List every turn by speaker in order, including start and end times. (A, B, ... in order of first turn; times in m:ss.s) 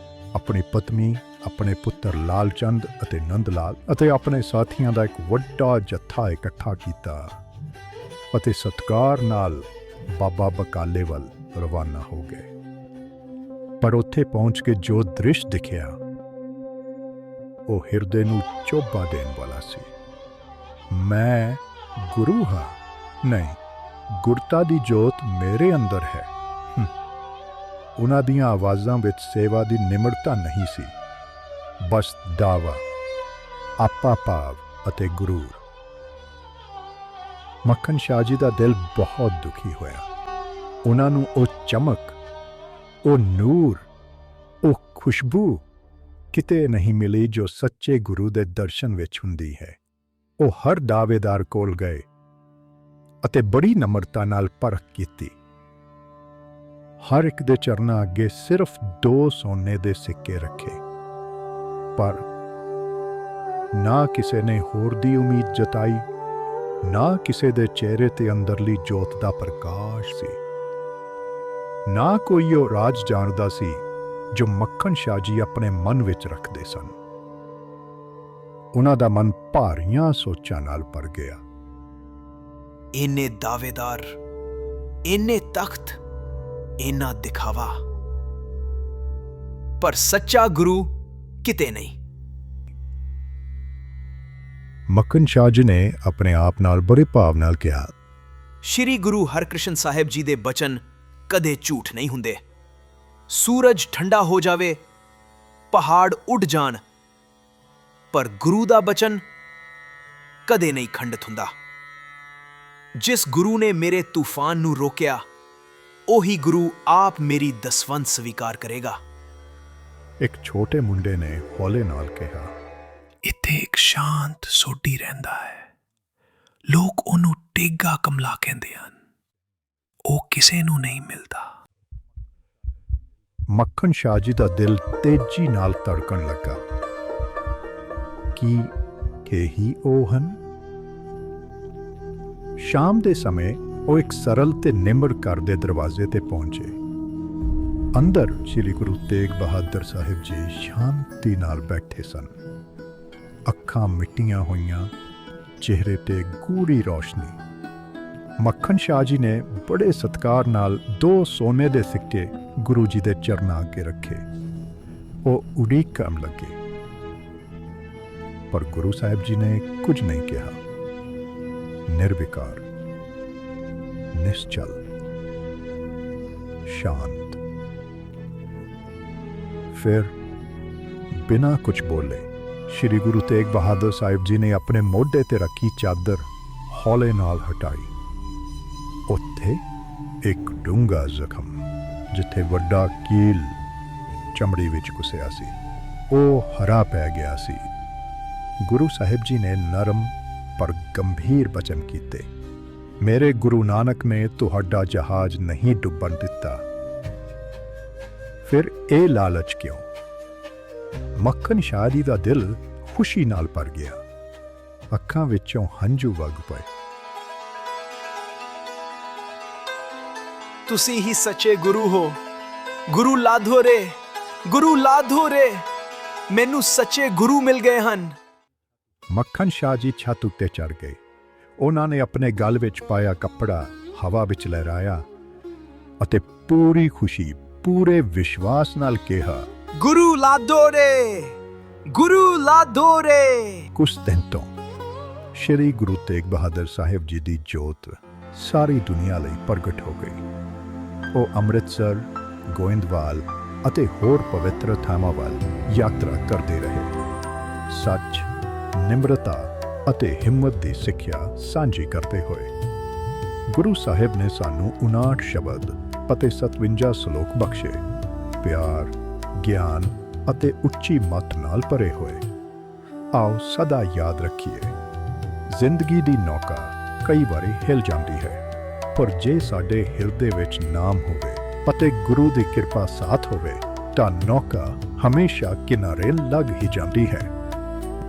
0:00.3-0:07.4 A
0:08.3-0:12.5 A
0:13.8-0:16.0 A
0:17.7-0:19.9 A
0:20.9-0:23.6 A
0:24.1-0:26.9 A
0:28.0-0:30.9 A
0:31.8-0:32.8 A
0:33.8-0:35.6 A
0:37.6-0:40.1 A
0:40.8-0:42.2 A
0:43.1-0:43.9 A
0:44.6-0:45.6 A
0:46.3-0:49.8 A
0:50.4-0:52.1 A
0:53.2-0:55.4 A
0:57.0-1:00.8 A
1:02.0-1:02.2 A
1:03.7-1:06.1 A
1:06.8-1:10.4 A
1:11.9-1:17.0 A
1:18.8-1:21.4 A
1:23.0-1:24.2 B
1:25.1-1:26.0 B
1:26.8-1:27.8 B
1:29.8-1:30.9 B
1:31.4-1:32.0 B
1:34.9-1:37.9 A
1:38.6-1:42.4 B
1:43.3-1:44.8 B
1:45.7-1:46.8 B
1:48.1-1:49.2 B
1:50.5-1:51.5 B
1:53.0-1:55.2 B
1:56.1-1:59.0 B
2:00.2-2:02.5 A
2:03.2-2:05.7 C
2:06.7-2:09.0 C
2:10.1-2:11.5 C
2:13.5-2:16.6 A
2:18.4-2:18.7 A
2:19.2-2:20.4 A
2:22.6-2:26.8 A
2:28.0-2:32.3 A
2:33.5-2:34.9 A
2:35.6-2:37.4 A
2:38.4-2:44.2 A
2:45.2-2:46.6 A
2:48.5-2:50.6 A
2:51.9-2:52.6 A
2:54.1-2:54.8 A
2:56.7-2:57.4 A
2:59.7-3:00.1 A
3:01.1-3:07.9 A
3:09.1-3:09.6 A
3:10.2-3:13.6 A
3:14.3-3:15.5 A
3:16.1-3:17.7 A
3:18.6-3:22.3 A
3:23.0-3:26.6 A
3:28.4-3:29.9 A
3:31.2-3:34.0 A
3:34.9-3:36.7 A
3:40.7-3:42.2 B
3:42.9-3:44.0 B
3:44.5-3:45.7 B
3:46.3-3:48.2 B
3:49.1-3:51.0 A
3:51.6-3:55.0 A
3:56.0-3:59.5 A
3:59.8-4:01.4 B
4:01.9-4:03.7 B
4:03.8-4:04.5 A
4:05.3-4:10.2 A
4:11.1-4:17.0 A
4:17.7-4:22.5 A
4:23.5-4:27.8 A
4:28.4-4:32.3 A
4:33.1-4:34.7 A
4:35.5-4:47.3 A